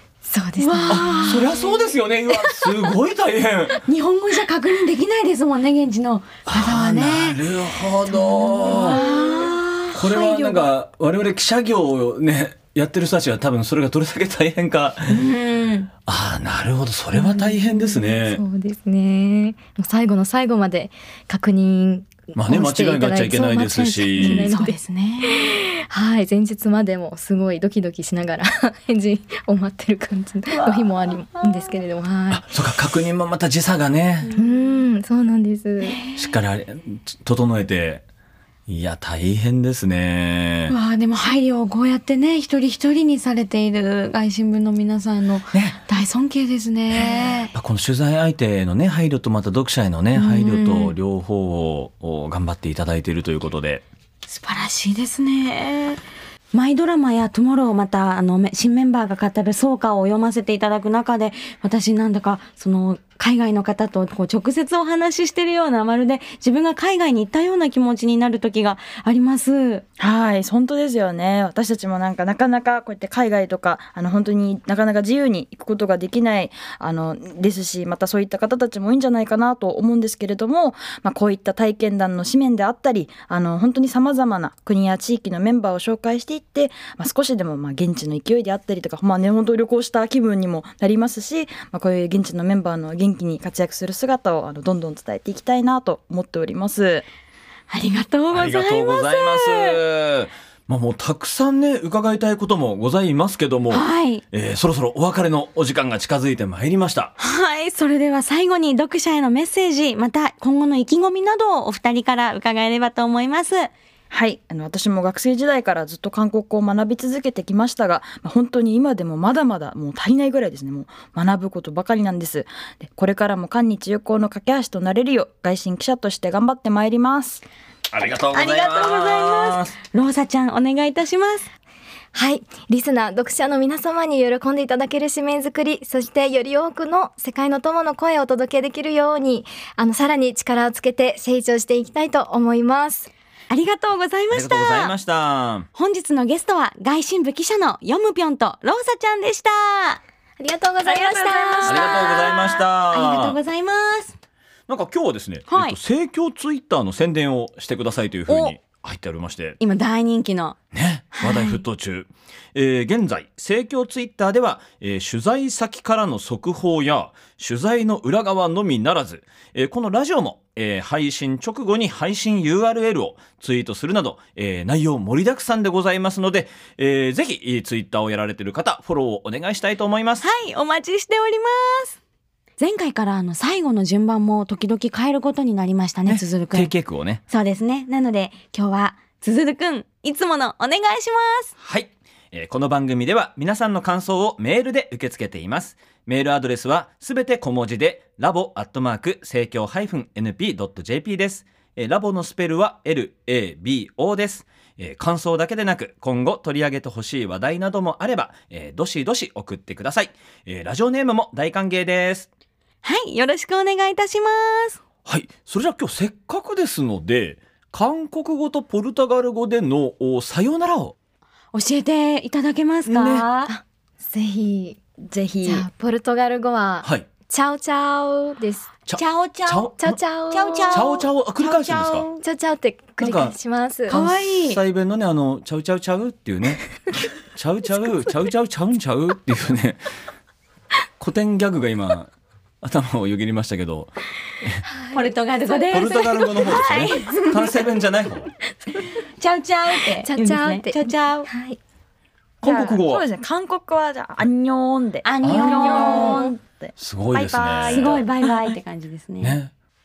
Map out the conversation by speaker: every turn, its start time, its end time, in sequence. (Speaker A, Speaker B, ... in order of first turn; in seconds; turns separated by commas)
Speaker A: 0.2-1.7, Speaker B: 0.6-1.5, Speaker C: 0.9-3.8, Speaker A: 2.3-2.7, Speaker B: 3.8-7.4, Speaker C: 6.5-9.0, Speaker A: 8.1-9.6, Speaker B: 8.6-10.7, Speaker C: 9.9-15.3, Speaker B: 15.1-15.9, Speaker C: 16.1-18.4, Speaker A: 17.1-32.5, Speaker C: 22.3-24.5, Speaker B: 24.2-25.5, Speaker B: 30.5-31.3, Speaker C: 32.3-34.3, Speaker B: 34.3-34.7, Speaker A: 34.4-36.0, Speaker B: 35.8-36.3, Speaker C: 36.2-38.0, Speaker C: 38.7-40.8, Speaker B: 40.7-47.5, Speaker C: 45.5-45.8, Speaker C: 46.9-53.9, Speaker B: 50.1-51.0, Speaker B: 54.3-56.0, Speaker B: 56.5-69.8, Speaker D: 70.0-97.0, Speaker B: 97.7-99.8, Speaker C: 98.3-107.1, Speaker B: 103.7-104.2, Speaker B: 107.2-113.7, Speaker D: 114.1-127.4, Speaker C: 127.9-129.8, Speaker B: 128.3-131.5, Speaker A: 132.1-143.1, Speaker B: 143.5-144.9, Speaker C: 144.3-145.7, Speaker B: 145.8-150.0, Speaker A: 150.4-152.3, Speaker B: 150.9-154.2, Speaker D: 151.3-151.9, Speaker C: 151.6-153.4, Speaker C: 154.7-159.6, Speaker B: 155.5-155.8, Speaker B: 158.3-158.6, Speaker B: 159.6-160.6, Speaker C: 160.7-180.3, Speaker B: 161.2-161.6, Speaker B: 180.2-182.0, Speaker B: 182.6-186.7, Speaker C: 186.1-187.2, Speaker B: 187.3-191.5, Speaker C: 191.6-212.3, Speaker B: 212.8-214.8, Speaker C: 215.1-220.9, Speaker B: 221.5-223.5, Speaker C: 222.9-223.3, Speaker A: 223.5-224.8, Speaker D: 225.0-225.7, Speaker A: 225.4-228.7, Speaker C: 228.9-230.0, Speaker B: 229.0-229.7, Speaker A: 229.8-230.9, Speaker B: 230.3-232.2, Speaker C: 230.7-232.1, Speaker A: 232.2-234.0, Speaker C: 233.0-233.3, Speaker B: 233.9-234.6, Speaker C: 233.9-236.7, Speaker C: 237.3-239.8, Speaker C: 241.0-242.1, Speaker C: 242.6-244.7, Speaker A: 244.7-246.2, Speaker B: 244.9-247.6, Speaker C: 245.7-248.3, Speaker B: 249.2-251.3, Speaker A: 250.0-251.6, Speaker C: 252.4-253.1, Speaker D: 252.4-256.7, Speaker B: 255.1-256.3, Speaker C: 255.2-256.2, Speaker A: 255.8-256.2, Speaker C: 256.8-258.0, Speaker B: 257.1-259.4, Speaker D: 257.5-258.0, Speaker C: 259.2-259.5